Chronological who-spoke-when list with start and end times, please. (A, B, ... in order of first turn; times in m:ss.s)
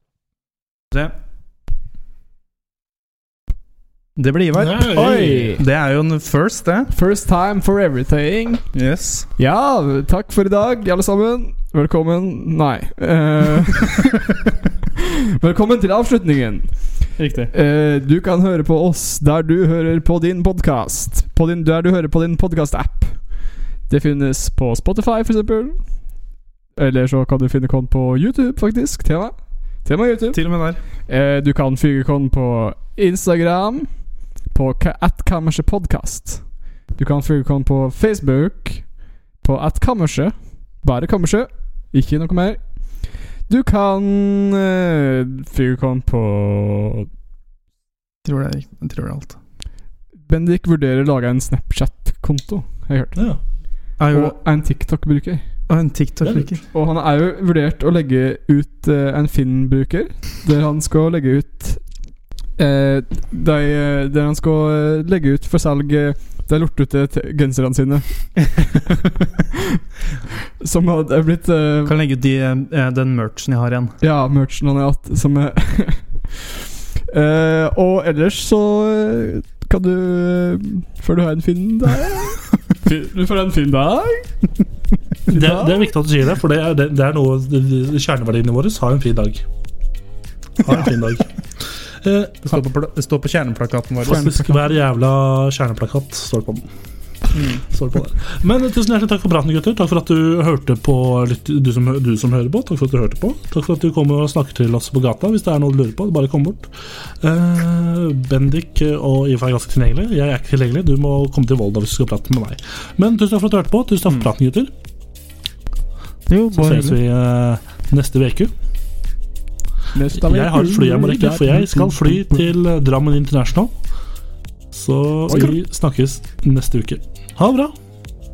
0:04.2-0:06.9 A
0:04.5-0:05.4 B
0:04.9-0:05.6 C
0:06.9-0:08.6 C
0:08.7-0:09.3 A
0:09.4-0:14.3 C
0:15.4-0:16.7 C
0:17.2-0:17.5 A
0:17.5-0:23.2 C
0:23.9-0:25.8 C
0:26.8-0:30.4 C
0:30.3-0:30.8 A
0:31.1-0:33.9 C
0:34.5-0:36.4 C
0:37.0-0:38.9 C
0:39.4-0:42.6 C
0:43.5-0:47.1 C
0:48.2-0:49.4 A
0:50.3-0:53.2 C
0:54.0-0:54.4 A
0:54.1-0:55.4 C
0:55.7-0:56.6 A
0:56.2-0:56.5 B
0:56.7-1:01.8 C
1:02.6-1:08.2 C
1:10.6-1:11.9 C
1:11.8-1:14.0 A
1:14.0-1:16.5 C
1:17.1-1:24.3 C
1:25.3-1:25.8 C
1:25.3-1:29.4 B
1:30.6-1:32.6 B
1:32.4-1:34.2 A
1:34.0-1:36.7 B
1:34.1-1:34.8 C
1:37.3-1:37.6 A
1:37.7-1:54.7 B
1:56.3-1:57.0 A
1:56.5-1:58.5 B
1:59.9-2:02.4 C
2:00.2-2:03.7 B
2:04.7-2:07.7 B
2:05.3-2:05.6 C